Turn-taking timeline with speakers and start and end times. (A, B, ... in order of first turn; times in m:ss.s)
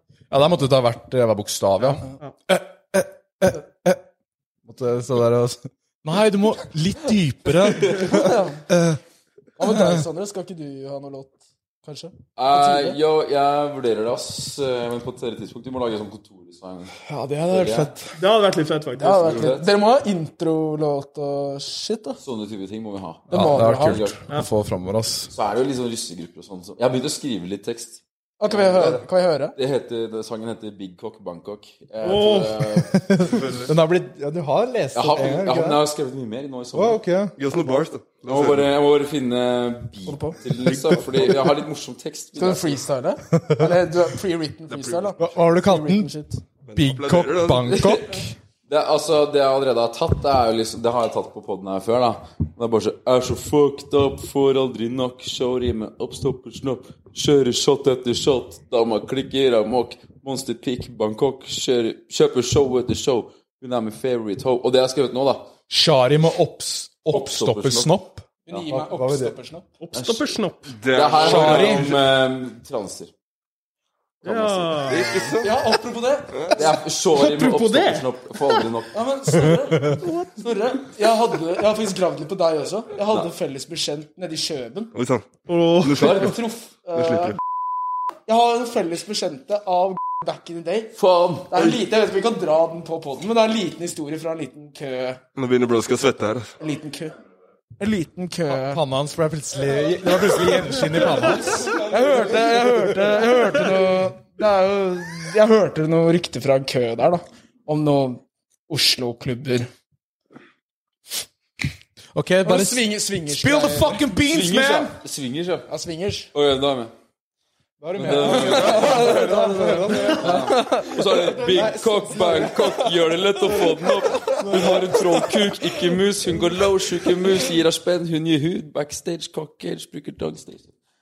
0:00.3-0:04.0 A
0:04.6-0:09.0 A
0:08.0-0:08.6 B
0:09.6-0:13.0 B
0:09.6-0:10.0 A
0:12.4-0:17.9 C
0:17.1-0:18.1 A
0:18.2-0:19.4 D
0:19.0-0:22.2 B
0:19.0-0:19.8 C
0:22.2-0:24.2 C
0:23.3-0:25.3 A
0:23.3-0:24.0 B
0:25.3-0:29.0 C
0:28.4-0:29.5 B
0:29.5-0:32.9 C
0:32.0-0:32.8 D
0:32.9-0:35.8 A
0:33.3-0:33.7 E
0:34.9-0:37.0 C
0:36.7-0:37.3 A
0:37.4-0:38.7 E
0:38.2-0:42.8 C
0:40.1-0:40.4 B
0:42.4-0:46.4 B
0:44.7-0:45.1 E
0:45.2-0:46.1 A
0:46.6-0:47.8 E
0:46.7-0:48.3 A
0:47.6-1:05.5 C
1:05.7-1:09.4 A
1:07.1-1:07.9 C
1:08.5-1:09.6 B
1:09.8-1:10.7 D
1:09.9-1:10.3 C
1:10.8-1:12.1 E
1:10.9-1:13.1 C
1:11.2-1:12.0 A
1:14.2-1:14.8 C
1:14.2-1:15.4 D
1:14.8-1:15.5 E
1:15.4-1:16.6 B
1:16.3-1:16.6 E
1:16.5-1:19.0 C
1:17.1-1:18.0 D
1:18.9-1:24.9 B
1:24.9-1:26.3 E
1:25.5-1:26.3 D
1:25.9-1:26.4 C
1:26.2-1:27.3 B
1:27.0-1:27.4 E
1:28.3-1:31.0 B
1:31.0-1:31.7 C
1:31.5-1:35.2 B
1:35.4-1:36.6 E
1:36.6-1:37.2 B
1:37.8-1:38.8 B
1:38.5-1:41.8 A
1:41.6-1:49.7 B
1:52.1-1:54.9 A
1:52.4-1:54.0 B
1:54.2-1:55.7 C
1:55.7-1:56.3 B
1:56.3-1:56.9 C
1:57.8-2:02.7 A
1:58.0-1:59.2 C
1:58.2-2:00.9 B
1:59.9-2:10.7 C
2:04.4-2:05.0 A